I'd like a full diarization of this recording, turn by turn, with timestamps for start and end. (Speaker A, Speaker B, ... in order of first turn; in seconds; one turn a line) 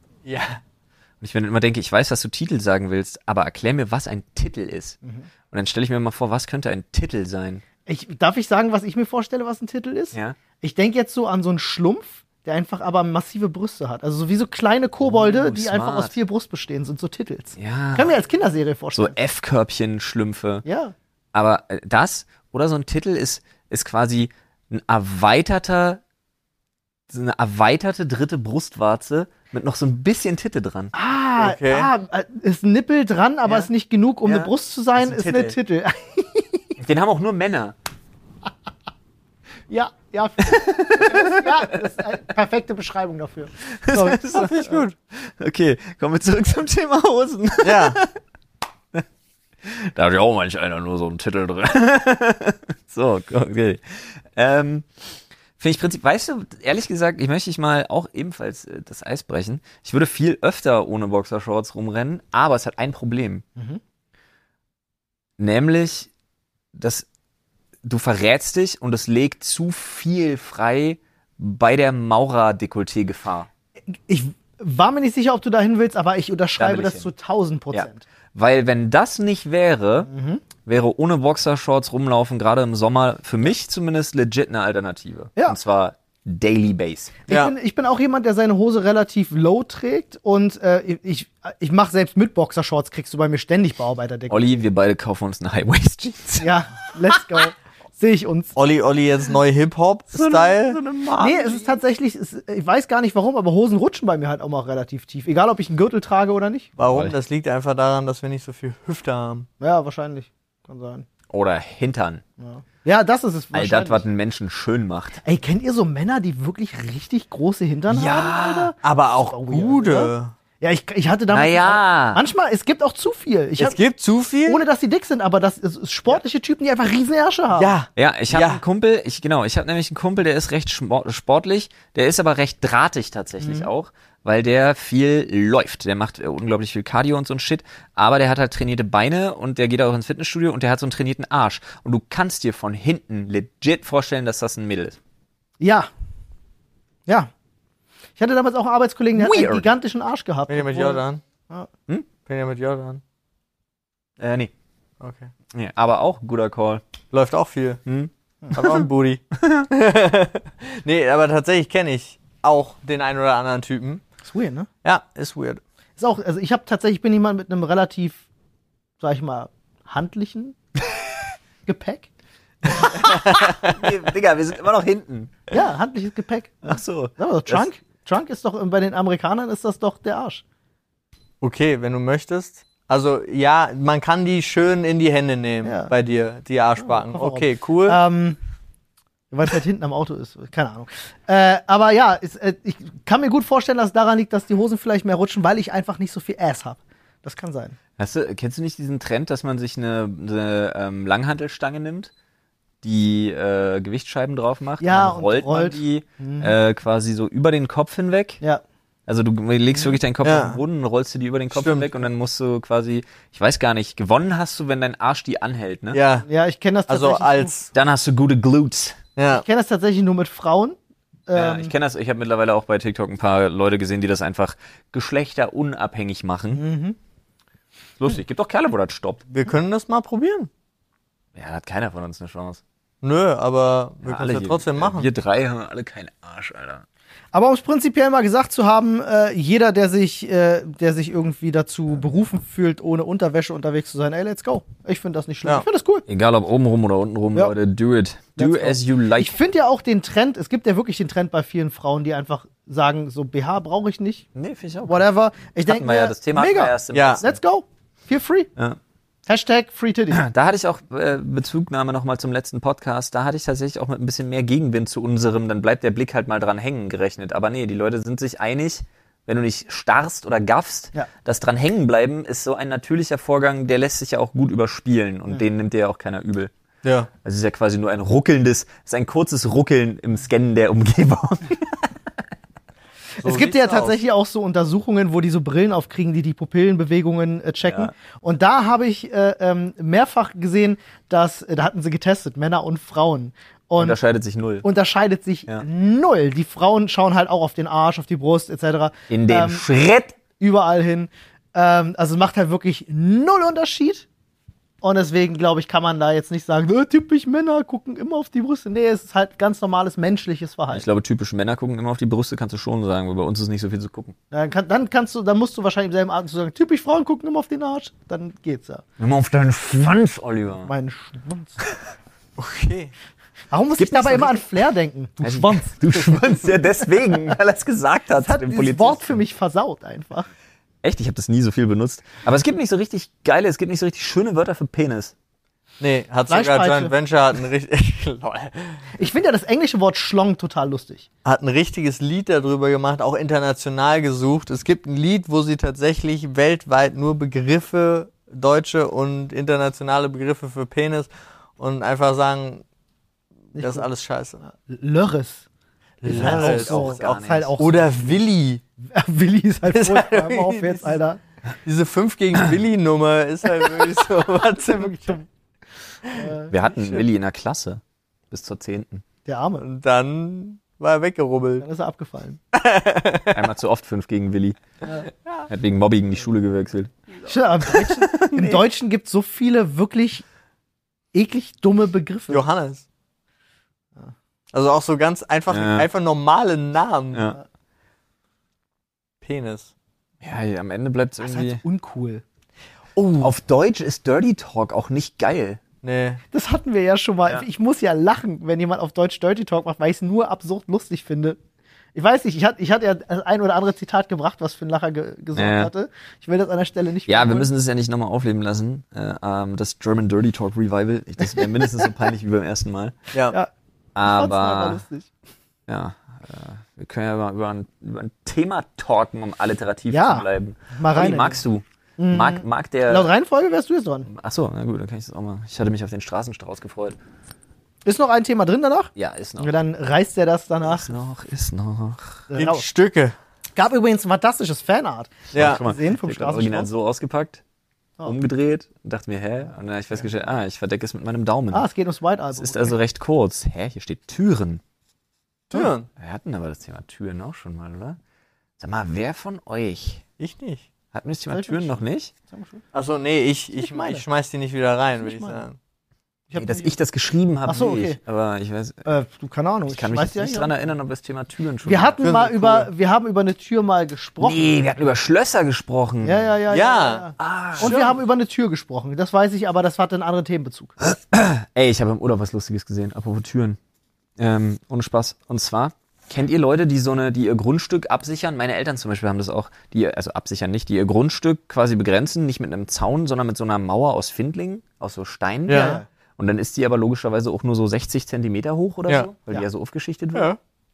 Speaker A: 0.2-0.6
Speaker B: 1.2-5.0
Speaker B: 5.5-7.6
Speaker C: 7.8-19.1
Speaker B: 10.1-10.4
Speaker B: 15.0-16.1
Speaker B: 17.6-18.1
Speaker B: 18.9-20.6
Speaker C: 20.6-20.9
Speaker B: 21.3-26.0
Speaker B: 27.1-30.9
Speaker C: 30.9-36.6
Speaker A: 31.4-31.9
Speaker B: 34.2-35.6
Speaker B: 36.8-37.7
Speaker C: 39.7-44.5
Speaker B: 40.4-41.7
Speaker B: 43.7-48.1
Speaker A: 44.3-44.9
Speaker A: 47.6-48.0
Speaker B: 49.6-54.9
Speaker B: 55.6-63.4
Speaker B: 65.4-66.1
Speaker B: 66.7-67.0
Speaker B: 67.8-73.5
Speaker C: 73.9-78.0
Speaker B: 76.6-77.1
Speaker B: 77.7-80.1
Speaker C: 80.1-80.4
Speaker B: 80.6-87.2
Speaker C: 87.3-94.7
Speaker B: 94.3-96.5
Speaker C: 96.4-98.5
Speaker A: 98.5-100.8
Speaker B: 100.1-101.7
Speaker C: 101.2-106.7
Speaker A: 106.8-109.5
Speaker B: 106.9-107.1
Speaker C: 109.6-111.0
Speaker B: 111.3-112.2
Speaker C: 112.4-114.0
Speaker B: 113.5-115.2
Speaker C: 115.2-123.8
Speaker B: 117.9-118.7
Speaker A: 118.8-120.3
Speaker B: 121.3-122.2
Speaker A: 123.6-124.6
Speaker C: 124.5-127.7
Speaker A: 127.5-128.6
Speaker B: 128.0-145.0
Speaker C: 133.4-133.7
Speaker C: 145.6-145.9
Speaker C: 148.2-151.7
Speaker B: 149.2-149.7
Speaker A: 150.5-151.2
Speaker A: 152.2-153.0
Speaker B: 154.2-154.5
Speaker A: 155.0-155.3
Speaker B: 155.5-156.8
Speaker A: 157.1-157.8
Speaker B: 157.8-158.8
Speaker A: 158.5-164.0
Speaker B: 159.4-159.7
Speaker C: 164.2-164.7
Speaker A: 164.8-165.6
Speaker C: 166.0-168.2
Speaker C: 169.0-170.6
Speaker C: 171.7-172.1
Speaker B: 172.7-175.5
Speaker A: 173.0-173.7
Speaker C: 175.5-180.4
Speaker B: 176.6-177.7
Speaker A: 181.4-188.0
Speaker C: 185.6-185.9
Speaker C: 186.8-188.4
Speaker C: 189.3-197.8
Speaker B: 198.0-202.1
Speaker B: 202.8-208.4
Speaker C: 204.8-206.5
Speaker B: 209.1-216.0
Speaker C: 209.7-210.0
Speaker A: 210.2-210.6
Speaker A: 211.5-211.9
Speaker A: 215.9-216.3
Speaker C: 216.2-217.5
Speaker A: 216.9-217.7
Speaker B: 217.7-219.0
Speaker A: 219.2-219.4
Speaker C: 219.3-221.7
Speaker B: 221.3-226.6
Speaker C: 226.5-227.0
Speaker B: 228.0-229.2
Speaker A: 229.3-230.5
Speaker B: 231.3-232.6
Speaker A: 233.0-235.1
Speaker B: 234.0-236.8
Speaker C: 237.3-246.1
Speaker B: 246.1-249.4
Speaker C: 248.4-254.2
Speaker B: 254.3-255.1
Speaker C: 254.8-258.5
Speaker B: 255.6-257.4
Speaker A: 256.9-257.2
Speaker C: 259.3-260.2
Speaker B: 260.1-276.5
Speaker A: 276.8-277.1
Speaker B: 277.2-281.9
Speaker C: 283.2-294.0
Speaker A: 283.2-284.0
Speaker B: 287.7-287.9
Speaker B: 293.8-294.6
Speaker C: 294.6-299.6
Speaker B: 299.1-300.2
Speaker C: 300.4-304.1
Speaker C: 304.8-310.9
Speaker B: 310.7-314.1
Speaker C: 314.3-318.8
Speaker B: 319.0-320.7
Speaker C: 320.6-321.6
Speaker A: 322.4-322.9
Speaker C: 323.5-326.2
Speaker B: 323.8-324.5
Speaker B: 325.2-329.2
Speaker C: 328.2-330.3
Speaker B: 330.8-335.1
Speaker A: 335.8-338.9
Speaker C: 336.3-336.9
Speaker C: 339.0-341.1
Speaker A: 341.2-352.6
Speaker C: 353.6-353.9
Speaker A: 353.6-354.4
Speaker C: 354.4-355.4
Speaker A: 356.0-357.1
Speaker B: 356.1-357.6
Speaker C: 356.1-358.1
Speaker A: 357.6-358.6
Speaker C: 358.8-361.2
Speaker A: 359.7-361.0
Speaker A: 361.6-365.2
Speaker C: 366.1-366.5
Speaker A: 366.1-367.0
Speaker B: 366.5-369.0
Speaker C: 369.2-369.6
Speaker A: 369.6-371.6
Speaker C: 371.6-372.4
Speaker A: 372.5-373.4
Speaker B: 373.3-374.6
Speaker B: 375.5-376.9
Speaker C: 377.2-380.2
Speaker B: 377.6-378.6
Speaker C: 381.1-382.4
Speaker A: 382.3-382.8
Speaker A: 384.5-387.3
Speaker B: 385.5-385.9
Speaker B: 387.1-387.4
Speaker A: 389.2-389.7
Speaker B: 390.2-391.6
Speaker C: 391.2-392.2
Speaker A: 392.9-393.3
Speaker B: 393.2-395.6
Speaker A: 395.8-396.2
Speaker C: 396.3-401.4
Speaker C: 401.9-407.5
Speaker B: 405.3-405.7
Speaker B: 407.1-413.0
Speaker B: 413.9-414.8
Speaker C: 414.0-415.1
Speaker B: 415.7-423.1
Speaker C: 419.9-421.4
Speaker C: 422.0-424.1
Speaker B: 424.1-427.0
Speaker C: 427.8-430.9
Speaker B: 428.9-429.5
Speaker B: 430.7-432.2
Speaker C: 432.3-432.6
Speaker A: 432.3-433.1
Speaker C: 433.6-436.7
Speaker A: 435.3-435.6
Speaker B: 435.3-437.4
Speaker B: 438.0-441.6
Speaker C: 441.5-442.8
Speaker B: 442.3-444.6
Speaker A: 445.5-445.9
Speaker B: 445.9-448.0
Speaker B: 448.6-450.0
Speaker A: 450.2-450.6
Speaker B: 450.9-452.1
Speaker C: 451.3-452.6
Speaker A: 452.7-455.6
Speaker C: 453.6-454.1
Speaker C: 455.0-455.4
Speaker C: 456.3-456.7
Speaker B: 456.4-458.8
Speaker C: 457.4-458.0
Speaker C: 458.8-460.5
Speaker B: 459.7-462.0
Speaker C: 461.6-464.5
Speaker A: 462.0-462.7
Speaker B: 464.2-466.3
Speaker C: 466.0-470.8
Speaker A: 466.5-467.9
Speaker B: 467.2-467.8
Speaker B: 470.8-473.6
Speaker B: 474.2-490.3
Speaker A: 485.5-485.8
Speaker C: 485.5-485.9
Speaker A: 488.9-489.1
Speaker A: 490.1-490.4